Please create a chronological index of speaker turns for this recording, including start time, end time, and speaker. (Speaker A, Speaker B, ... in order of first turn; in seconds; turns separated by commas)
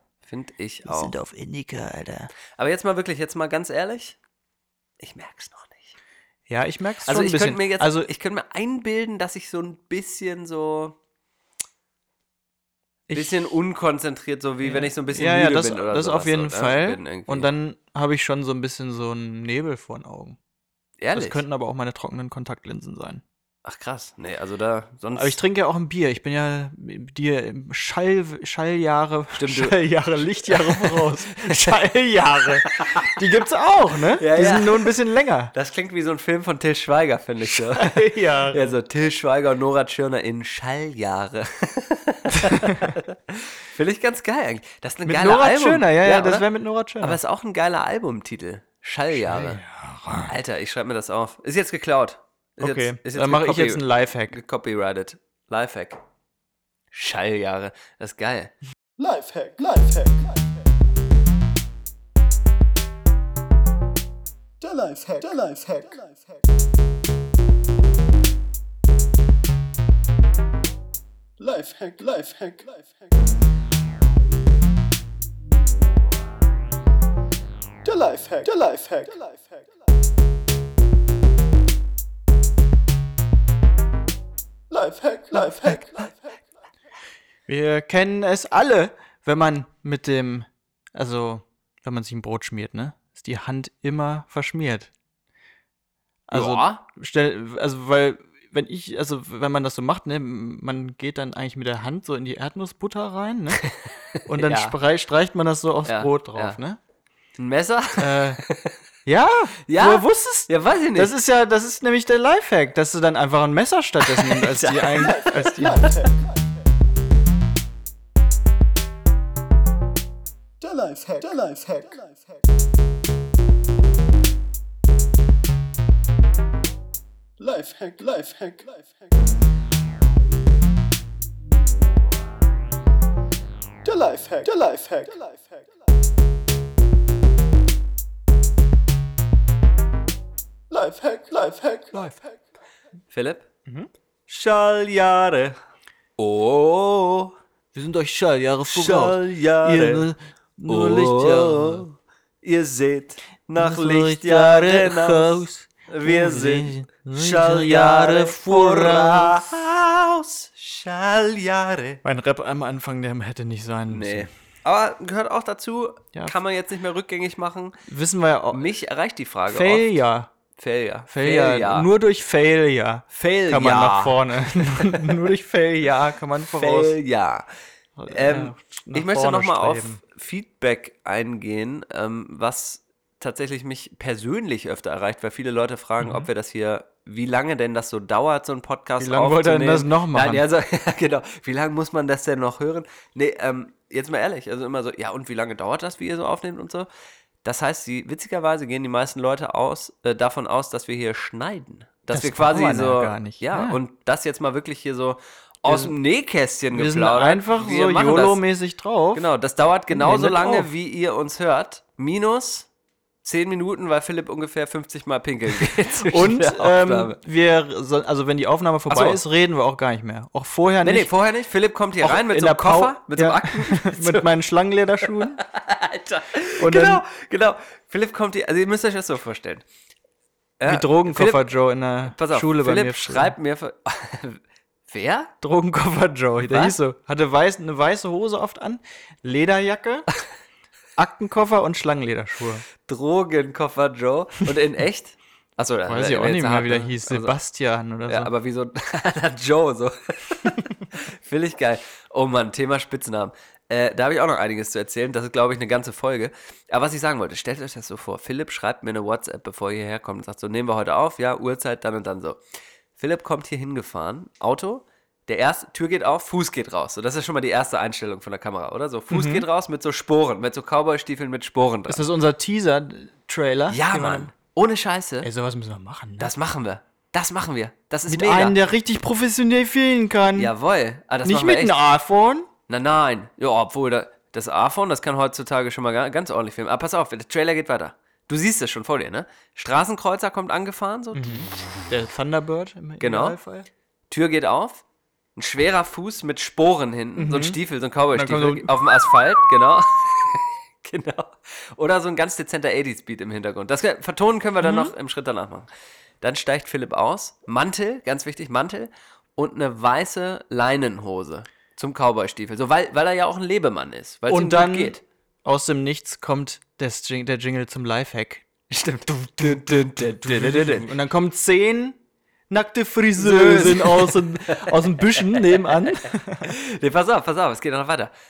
Speaker A: 0.2-1.1, Speaker B: 0.9-2.3, Speaker A: 2.5-4.2, Speaker A: 5.0-6.0, Speaker B: 6.5-8.1, Speaker A: 7.0-11.0, Speaker B: 13.1-13.5, Speaker A: 13.1-17.5, Speaker B: 14.6-20.4, Speaker A: 21.0-21.4, Speaker B: 21.1-23.2, Speaker A: 23.6-25.4, Speaker B: 25.1-35.5, Speaker A: 29.4-29.8, Speaker A: 30.5-31.8, Speaker A: 32.6-33.1, Speaker A: 34.2-34.9, Speaker A: 35.5-46.5, Speaker B: 37.5-38.8, Speaker B: 42.5-42.9, Speaker B: 45.0-47.2, Speaker A: 47.0-49.6, Speaker B: 49.1-50.3, Speaker A: 50.3-56.0, Speaker B: 52.6-54.4, Speaker A: 56.9-58.5, Speaker C: 59.0-60.5, Speaker C: 64.6-66.4, Speaker C: 71.4-72.9, Speaker C: 77.8-79.6, Speaker C: 84.7-86.4, Speaker B: 87.5-94.9, Speaker B: 96.3-103.6, Speaker A: 96.3-96.8, Speaker A: 103.6-104.8, Speaker B: 104.3-106.8, Speaker A: 105.8-106.6, Speaker A: 107.4-108.8, Speaker B: 108.0-108.4, Speaker B: 109.1-115.9, Speaker A: 109.7-111.2, Speaker A: 114.0-116.1, Speaker C: 115.0-116.4, Speaker C: 120.6-122.4, Speaker C: 127.4-128.9, Speaker C: 133.8-135.6, Speaker C: 140.7-142.3, Speaker A: 143.1-143.5, Speaker A: 144.3-145.6, Speaker A: 146.2-147.3, Speaker B: 147.7-151.8, Speaker A: 148.7-150.1, Speaker A: 150.7-162.0, Speaker B: 153.6-159.5, Speaker B: 162.0-164.3, Speaker A: 163.9-167.8, Speaker B: 167.9-168.7, Speaker A: 168.5-169.9, Speaker B: 169.5-170.3, Speaker A: 170.6-171.9, Speaker B: 171.1-177.0, Speaker A: 173.1-175.2, Speaker A: 176.6-177.5, Speaker B: 178.0-180.0, Speaker A: 178.1-196.9, Speaker B: 186.0-186.3, Speaker B: 189.0-190.4, Speaker A: 197.4-208.4, Speaker B: 202.1-203.8, Speaker B: 205.7-205.9, Speaker B: 206.7-209.2, Speaker A: 209.1-212.7, Speaker B: 209.9-210.7, Speaker A: 213.2-217.2, Speaker B: 216.0-221.1, Speaker A: 218.9-219.2, Speaker A: 220.8-224.3, Speaker B: 222.0-225.4, Speaker A: 225.0-229.7, Speaker B: 226.6-227.0, Speaker A: 230.6-231.5, Speaker B: 230.7-233.3, Speaker A: 232.1-235.3, Speaker B: 235.4-240.1, Speaker A: 236.4-236.8, Speaker B: 241.0-242.7, Speaker A: 242.8-247.4, Speaker B: 245.9-248.3, Speaker A: 248.1-262.4, Speaker A: 263.0-272.1, Speaker B: 269.1-269.4, Speaker B: 271.9-274.3, Speaker A: 273.7-275.3, Speaker B: 275.2-276.3, Speaker A: 276.2-278.6, Speaker B: 278.1-280.5, Speaker A: 280.4-281.8, Speaker B: 281.2-282.5, Speaker A: 282.7-291.5, Speaker B: 291.1-293.7, Speaker A: 293.0-293.4, Speaker A: 294.1-294.8, Speaker A: 295.4-305.7, Speaker B: 297.2-297.6, Speaker B: 298.1-298.7, Speaker B: 304.6-304.9, Speaker A: 306.2-315.0, Speaker B: 314.3-318.4, Speaker A: 318.7-320.9, Speaker B: 319.1-322.0, Speaker B: 322.5-326.5, Speaker A: 323.2-328.1